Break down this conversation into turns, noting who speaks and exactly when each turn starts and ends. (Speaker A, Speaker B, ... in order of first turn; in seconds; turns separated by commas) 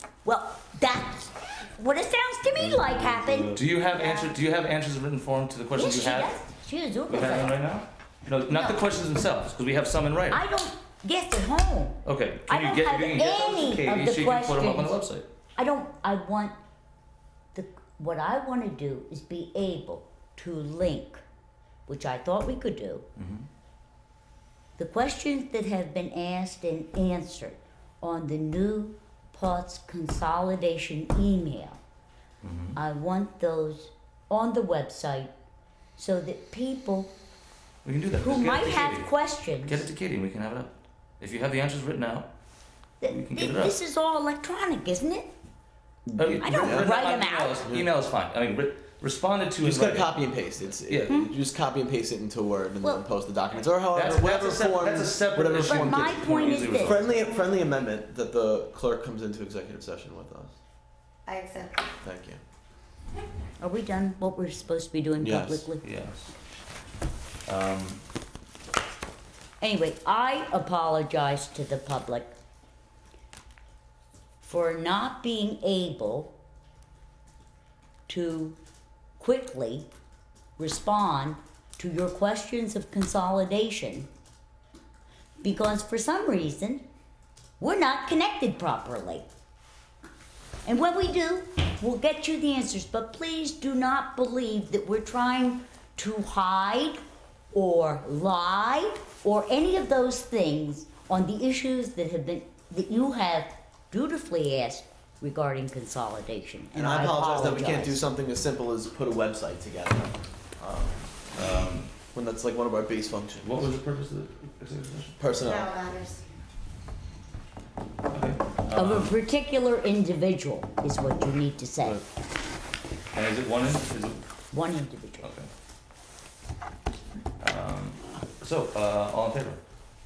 Speaker A: 0.2-3.6, Speaker B: 3.5-6.4, Speaker C: 3.9-4.3, Speaker A: 5.7-7.5, Speaker B: 7.1-10.4, Speaker A: 8.5-8.9, Speaker A: 10.3-15.0, Speaker B: 12.1-15.3, Speaker A: 15.6-16.6, Speaker A: 17.5-21.2, Speaker A: 21.9-23.1, Speaker B: 23.2-23.5, Speaker A: 24.8-31.8, Speaker B: 32.4-32.8, Speaker A: 32.8-35.3, Speaker A: 36.0-37.1, Speaker B: 37.9-42.3, Speaker A: 38.2-39.9, Speaker A: 43.0-45.3, Speaker B: 43.0-43.8, Speaker D: 46.1-46.9, Speaker B: 46.2-51.2, Speaker A: 46.4-47.7, Speaker D: 49.6-60.5, Speaker B: 53.9-57.2, Speaker A: 55.6-57.0, Speaker C: 61.3-61.9, Speaker D: 62.0-62.4, Speaker A: 63.6-65.8, Speaker D: 65.2-65.7, Speaker B: 65.8-66.3, Speaker B: 67.5-68.0, Speaker A: 69.6-72.3, Speaker A: 74.4-76.3, Speaker A: 78.1-78.6, Speaker A: 79.2-79.9, Speaker A: 80.6-84.1, Speaker A: 85.4-86.8, Speaker A: 87.6-89.3, Speaker A: 90.7-97.0, Speaker A: 97.5-108.0, Speaker D: 106.8-111.1, Speaker B: 111.3-111.9, Speaker D: 112.1-113.6, Speaker B: 113.4-115.3, Speaker D: 115.2-115.8, Speaker C: 115.4-116.2, Speaker B: 118.1-119.2, Speaker A: 118.7-122.0, Speaker B: 123.1-124.2, Speaker A: 124.5-125.3, Speaker B: 125.2-125.5, Speaker B: 127.4-129.6